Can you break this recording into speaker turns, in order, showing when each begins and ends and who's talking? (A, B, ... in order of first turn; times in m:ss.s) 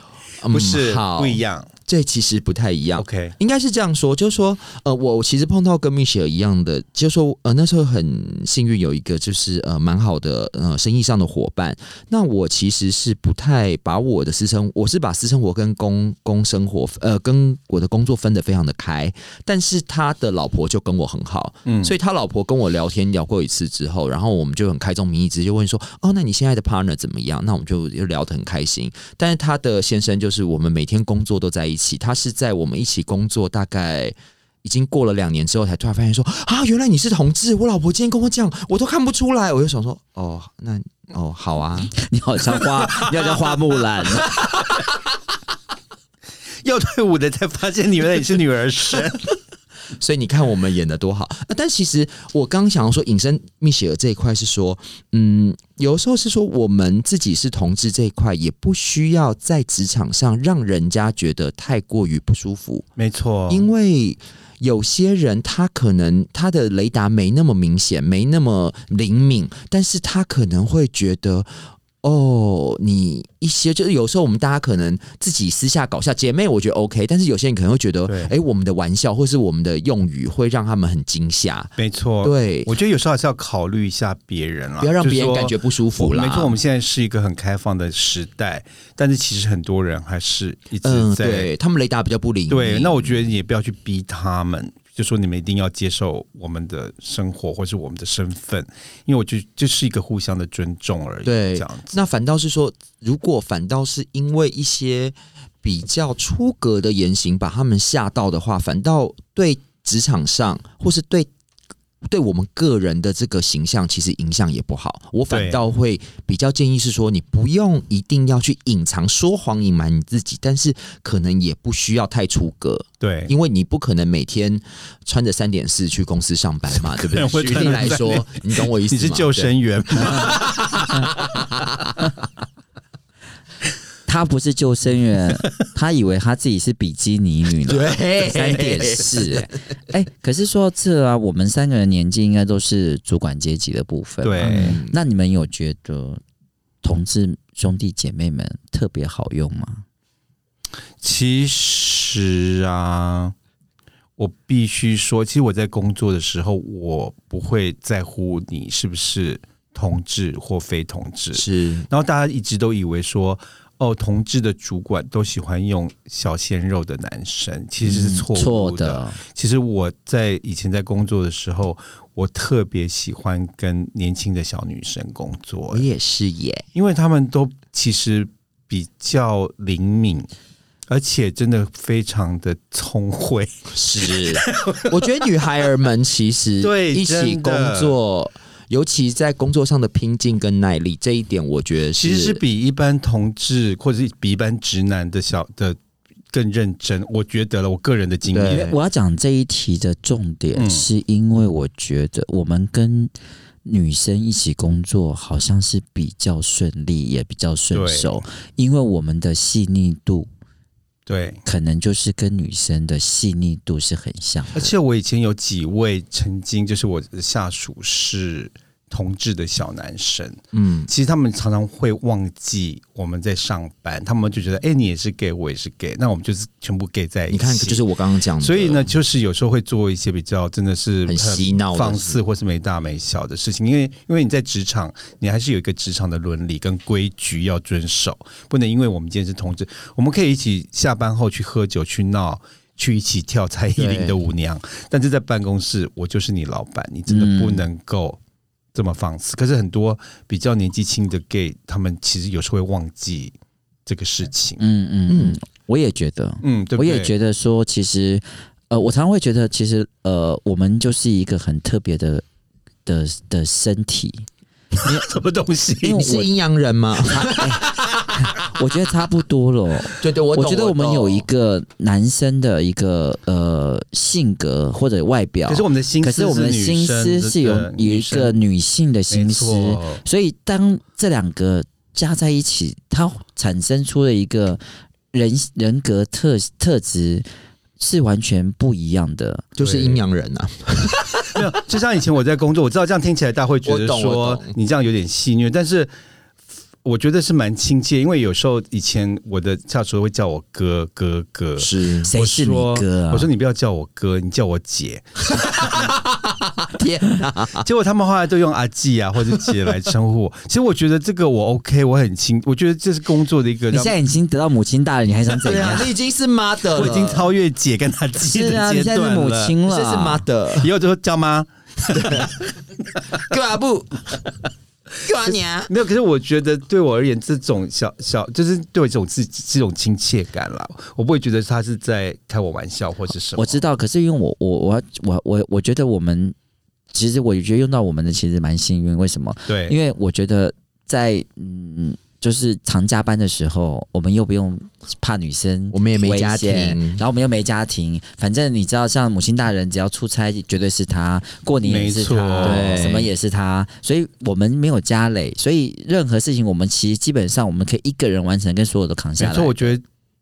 0:00.4-0:41.9 A
0:00.5-0:01.7 B
0:03.0-0:03.3 B
0:21.6-0:21.9 B
0:42.0-0:44.3 C
0:46.6-0:49.3 B
0:50.0-1:02.8 A
1:03.0-1:03.7 B
1:03.5-1:22.7 A
1:18.1-1:18.3 B
1:21.8-1:31.5 B
1:24.8-1:26.6 A
1:30.8-1:33.3 A
1:32.5-1:41.9 B
1:41.2-1:51.3 A
1:52.0-2:11.8 A
1:55.3-1:55.6 B
2:03.0-2:03.3 B
2:06.7-2:11.1 B
2:14.1-2:26.2 C
2:17.6-2:19.4 A
2:24.2-2:24.8 B
2:24.4-2:25.0 A
2:26.8-2:29.8 C
2:31.0-2:33.3 B
2:34.2-2:55.9 B
2:41.3-2:41.9 A
2:47.8-2:49.2 C
2:55.7-2:56.6 A
2:56.7-3:00.3 B
3:00.9-3:05.0 B
3:03.7-3:12.4 A
3:06.6-3:08.0 B
3:12.0-3:15.8 B
3:16.3-3:18.7 B
3:18.3-3:18.7 A
3:18.5-3:23.1 C
3:20.5-3:20.9 B
3:23.6-3:30.3 C
3:27.7-3:28.2 B
3:31.1-3:31.4 B
3:31.4-3:34.6 C
3:34.5-3:47.8 B
3:40.5-3:40.9 A
3:47.3-3:48.9 A
3:48.4-4:08.2 B
3:51.0-3:52.2 A
4:03.8-4:04.1 A
4:07.1-4:07.6 C
4:08.7-4:13.3 B
4:13.8-4:14.6 B
4:14.6-4:22.2 C
4:15.1-4:15.4 A
4:16.4-4:17.1 B
4:22.8-4:24.2 C
4:24.8-4:25.1 C
4:24.8-4:26.2 B
4:25.8-4:26.2 C
4:25.8-4:27.4 A
4:27.2-4:44.6 C
4:27.3-4:28.1 B
4:30.0-4:31.3 A
4:35.5-4:38.4 B
4:39.1-4:40.0 B
4:45.1-4:47.3 C
4:47.8-4:49.5 C
4:49.6-4:51.4 A
4:49.6-4:50.0 B
4:51.3-4:55.9 B
4:53.6-4:54.6 A
4:56.8-5:05.8 B
5:01.6-5:02.1 A
5:02.1-5:03.3 C
5:05.3-5:07.7 A
5:07.6-5:13.9 B
5:13.7-5:15.9 C
5:15.4-5:17.3 A
5:16.7-5:19.6 B
5:18.2-5:20.2 C
5:19.6-5:20.7 A
5:20.5-5:23.1 B
5:21.9-5:22.4 A
5:23.1-5:24.1 A
5:25.0-5:25.7 A
5:25.7-5:33.6 B
5:33.4-5:36.3 C
5:36.9-5:59.8 C
5:39.5-5:39.8 B
5:45.7-5:47.0 A
5:51.6-5:52.8 B
5:52.4-5:53.1 A
5:59.2-5:59.8 B